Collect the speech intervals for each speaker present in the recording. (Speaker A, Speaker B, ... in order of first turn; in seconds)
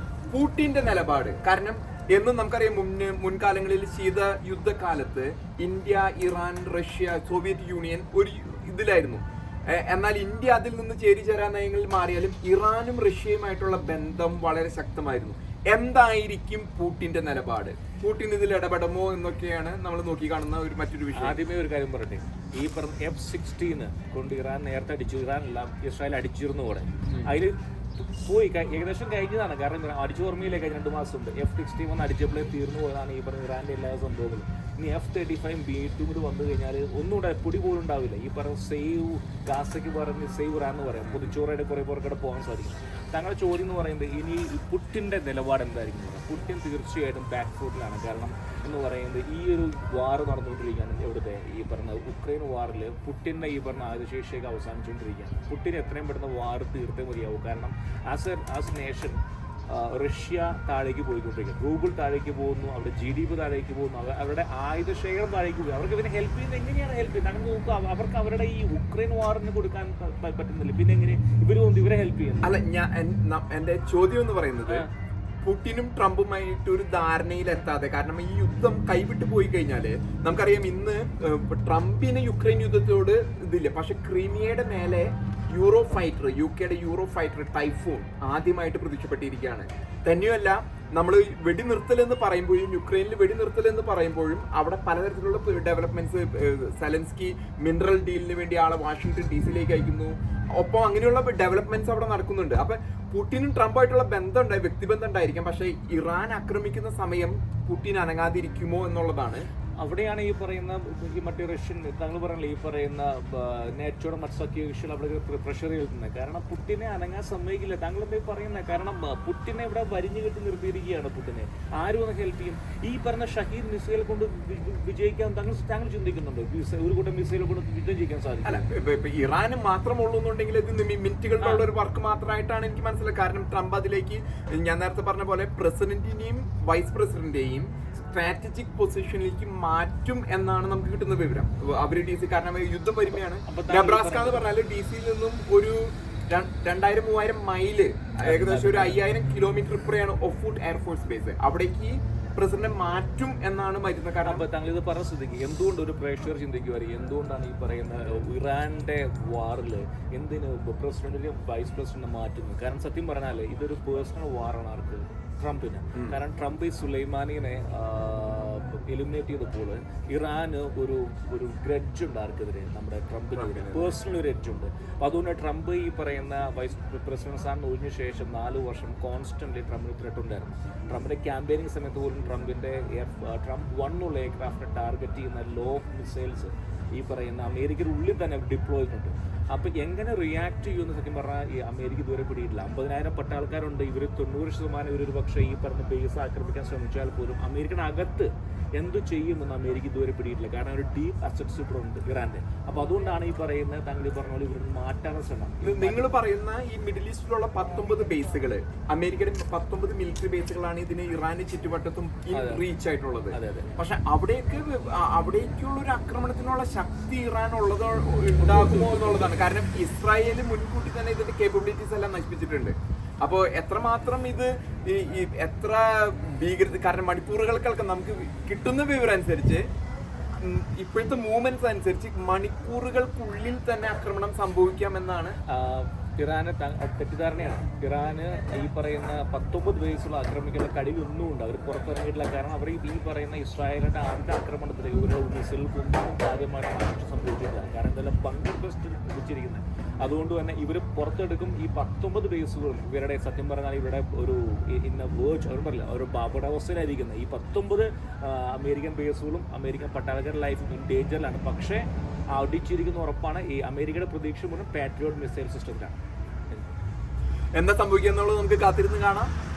Speaker A: 0.3-21.4, 41.1-41.4, 72.4-74.9, 75.4-109.5, 128.4-154.4, 173.3-174.0, 205.6-229.7, 230.4-235.4, 267.6-269.3
Speaker B: 21.1-72.6, 109.8-128.7, 131.4-131.6, 143.5-144.5, 148.2-149.0, 154.2-206.1, 212.3-212.6, 213.3-213.7, 218.4-219.3, 235.5-265.9